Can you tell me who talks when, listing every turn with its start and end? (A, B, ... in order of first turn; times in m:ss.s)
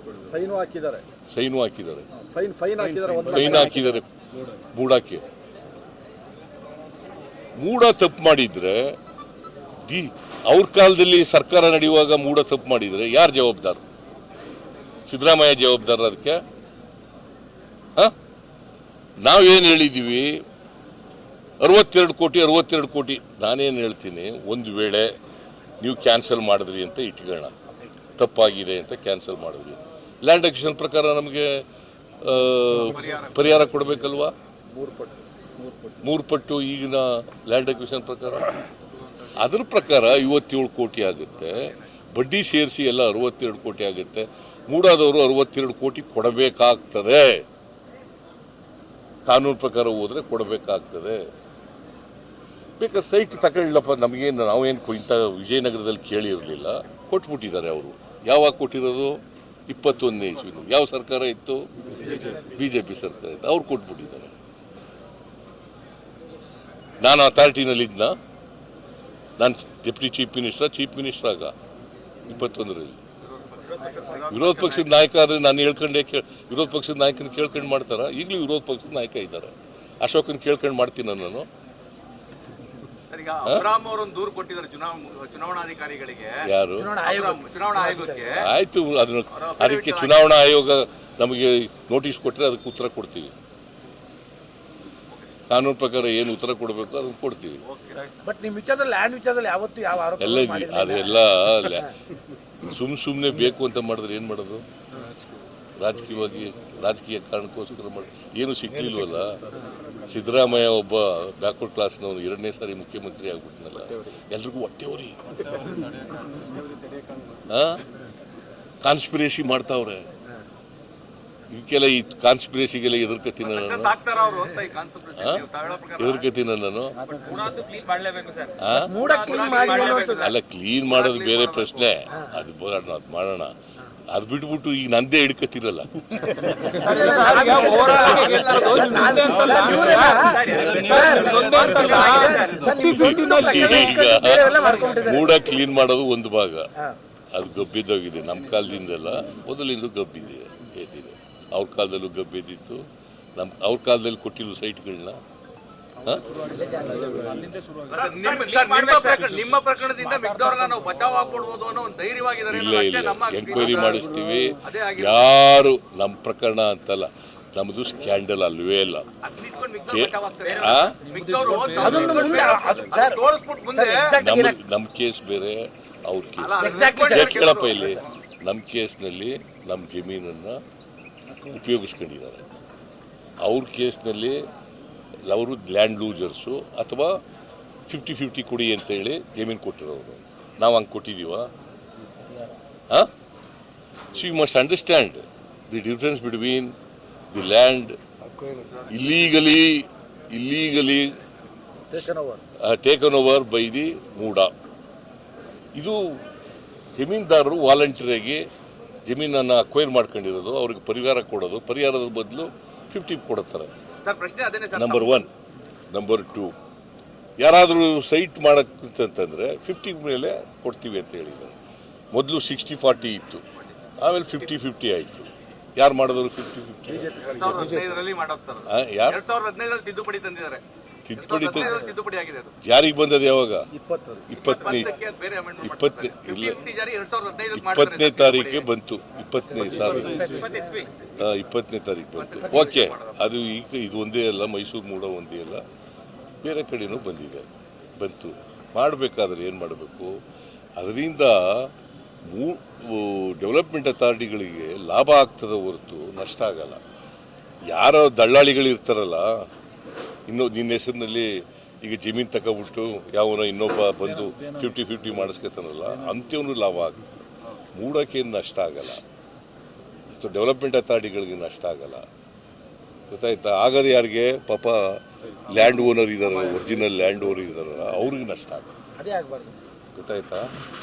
0:00.3-0:01.0 A
0:01.3-0:02.1 B
0:02.3-0:03.8 A
0:03.3-0:04.1 B
0:04.7-0:05.2 B
0:07.6-0:09.0 B
0:09.8-0:13.8 B
0:15.1-0:16.4 B
0:19.2-0:20.4 B
0:21.6-0:25.1 B
0:25.8-0:27.5 B
0:28.2-0:31.6 B
0:32.2-0:34.3 B
0:32.9-0:33.4 C
0:34.7-0:35.9 A
0:36.0-0:38.6 B
0:39.4-0:47.4 B
0:49.3-0:51.2 B
0:52.8-1:01.7 B
1:02.2-1:04.3 B
1:07.0-1:08.2 B
1:09.4-1:11.5 B
1:12.3-1:13.0 B
1:13.2-1:14.9 C
1:14.3-1:21.5 B
1:23.1-1:26.5 C
1:26.5-1:26.9 B
1:26.8-1:28.4 D
1:27.0-1:28.5 C
1:28.4-1:33.3 B
1:29.3-1:30.3 C
1:35.5-1:37.6 B
1:37.7-1:38.0 C
1:38.2-1:41.0 D
1:40.2-1:41.9 B
1:42.6-1:44.6 B
1:45.8-1:49.4 B
1:50.1-1:55.2 B
1:57.5-1:57.8 B
1:58.8-2:00.0 B
2:01.5-2:04.0 B
2:03.4-2:06.3 C
2:05.2-2:05.4 B
2:06.0-2:07.0 B
2:07.1-2:10.1 E
2:08.6-2:08.9 B
2:08.8-2:10.3 D
2:09.1-2:11.9 C
2:10.2-2:13.5 B
2:14.1-2:16.1 B
2:16.7-2:25.1 E
2:16.9-2:25.3 D
2:17.6-2:19.2 C
2:17.9-2:18.5 A
2:20.4-2:21.9 A
2:21.0-2:22.4 C
2:22.8-2:26.7 B
2:27.3-2:32.8 B
2:33.4-2:35.2 B
2:36.5-2:37.5 D
2:37.9-2:44.1 C
2:37.9-2:40.7 E
2:42.5-2:49.0 B
2:44.6-2:45.2 C
2:49.2-2:54.1 C
2:49.9-2:51.0 B
2:50.4-2:52.3 E
2:51.4-2:54.6 D
2:51.8-2:52.2 B
2:54.2-3:00.6 B
2:56.4-2:58.0 C
2:56.6-2:57.3 D
3:01.5-3:02.5 B
3:03.4-3:04.4 B
3:05.3-3:07.2 B
3:07.9-3:11.5 B
3:14.1-3:16.7 B
3:17.3-3:18.0 B
3:18.9-3:21.2 B
3:21.9-3:22.4 A
3:22.6-3:24.5 B
3:25.8-3:26.2 B
3:27.0-3:28.4 B
3:29.1-3:33.7 B
3:34.0-3:35.2 C
3:34.7-3:35.3 B
3:35.9-3:36.6 B
3:37.4-3:41.6 B
3:42.1-3:43.4 B
3:44.0-3:47.1 B
3:46.9-3:48.0 A
3:47.4-3:50.6 C
3:48.7-3:49.2 B
3:51.1-3:51.8 B
3:51.2-3:52.6 C
3:52.6-3:53.7 B
3:53.7-3:54.3 A
3:54.3-3:54.9 B
3:54.4-3:58.7 C
3:55.6-3:56.6 B
3:57.5-4:00.5 B
3:59.8-4:00.7 A
4:00.2-4:00.6 D
4:00.2-4:00.9 E
4:01.2-4:05.6 B
4:02.2-4:03.2 C
4:06.4-4:10.2 B
4:10.8-4:11.7 B
4:12.3-4:16.8 B
4:17.7-4:19.3 B
4:20.3-4:27.0 B
4:27.8-4:29.0 B
4:30.1-4:32.0 B
4:33.1-4:38.7 B
4:39.0-4:39.6 D
4:40.0-4:40.5 B